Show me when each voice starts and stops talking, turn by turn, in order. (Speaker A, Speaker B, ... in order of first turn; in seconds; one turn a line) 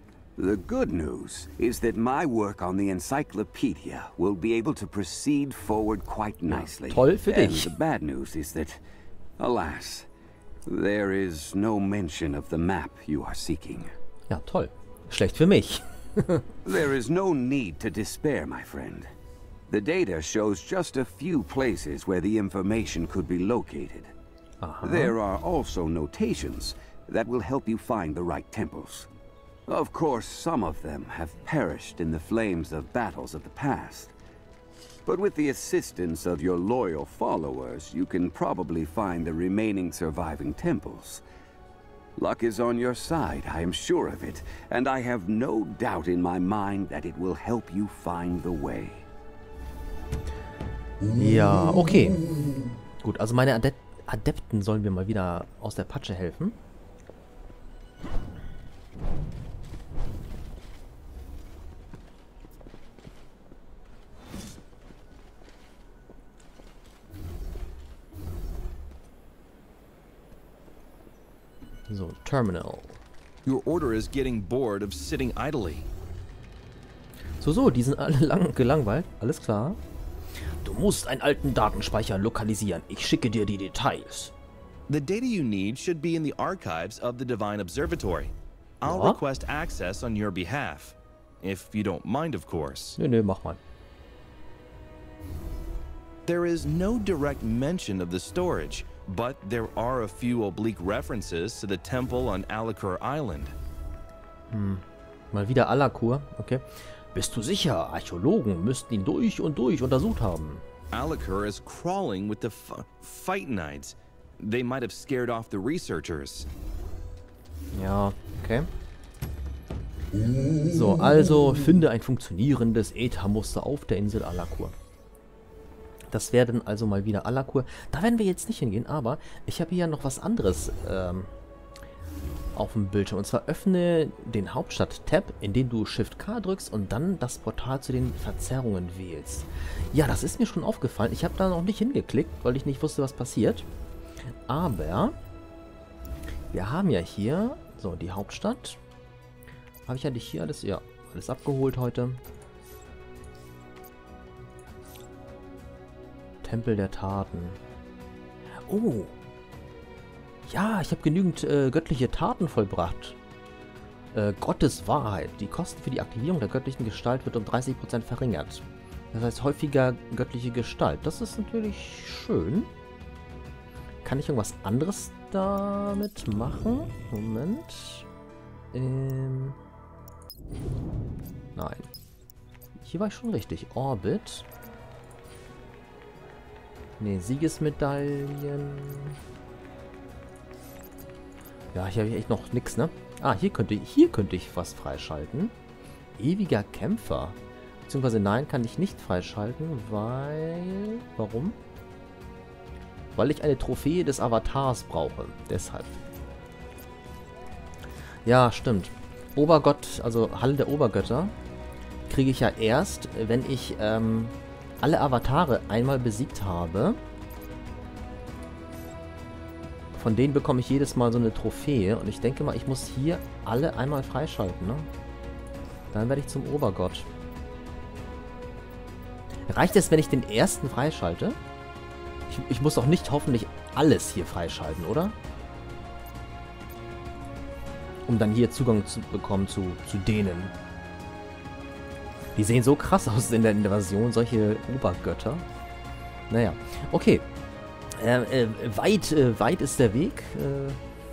Speaker A: 0.4-8.8
Speaker B: 6.5-7.8
Speaker A: 9.4-10.1
Speaker A: 10.7-13.9
Speaker B: 14.3-16.5
Speaker A: 16.6-19.1
Speaker A: 19.7-24.1
Speaker B: 24.6-25.1
Speaker A: 24.8-29.1
Speaker A: 29.7-34.1
Speaker A: 35.0-41.2
Speaker A: 42.2-49.0
Speaker B: 51.1-52.2
Speaker B: 53.0-56.6
Speaker B: 71.9-73.0
Speaker C: 73.4-75.9
Speaker B: 77.4-79.8
Speaker B: 80.6-84.3
Speaker C: 84.9-93.0
Speaker B: 88.8-89.2
Speaker B: 93.0-93.6
Speaker C: 96.2-103.5
Speaker B: 104.5-110.6
Speaker C: 110.9-116.5
Speaker B: 117.7-118.7
Speaker B: 120.7-124.7
Speaker B: 126.1-131.3
Speaker B: 132.5-143.7
Speaker B: 144.5-145.1
Speaker B: 146.5-148.8
Speaker B: 149.8-152.2
Speaker B: 156.4-157.6
Speaker B: 158.7-159.1
Speaker B: 160.5-163.2
Speaker B: 164.1-172.7
Speaker B: 174.0-178.1
Speaker B: 178.7-179.6
Speaker B: 181.6-181.9
Speaker B: 182.8-184.4
Speaker B: 187.0-189.2
Speaker B: 191.7-195.5
Speaker B: 196.2-201.6
Speaker B: 203.1-206.0
Speaker B: 208.2-211.3
Speaker B: 212.1-217.0
Speaker B: 220.0-224.9
Speaker B: 225.9-227.1
Speaker B: 229.5-231.4
Speaker B: 232.3-235.2
Speaker B: 238.1-240.5
Speaker B: 242.3-245.4
Speaker B: 246.3-247.2
Speaker B: 247.9-250.8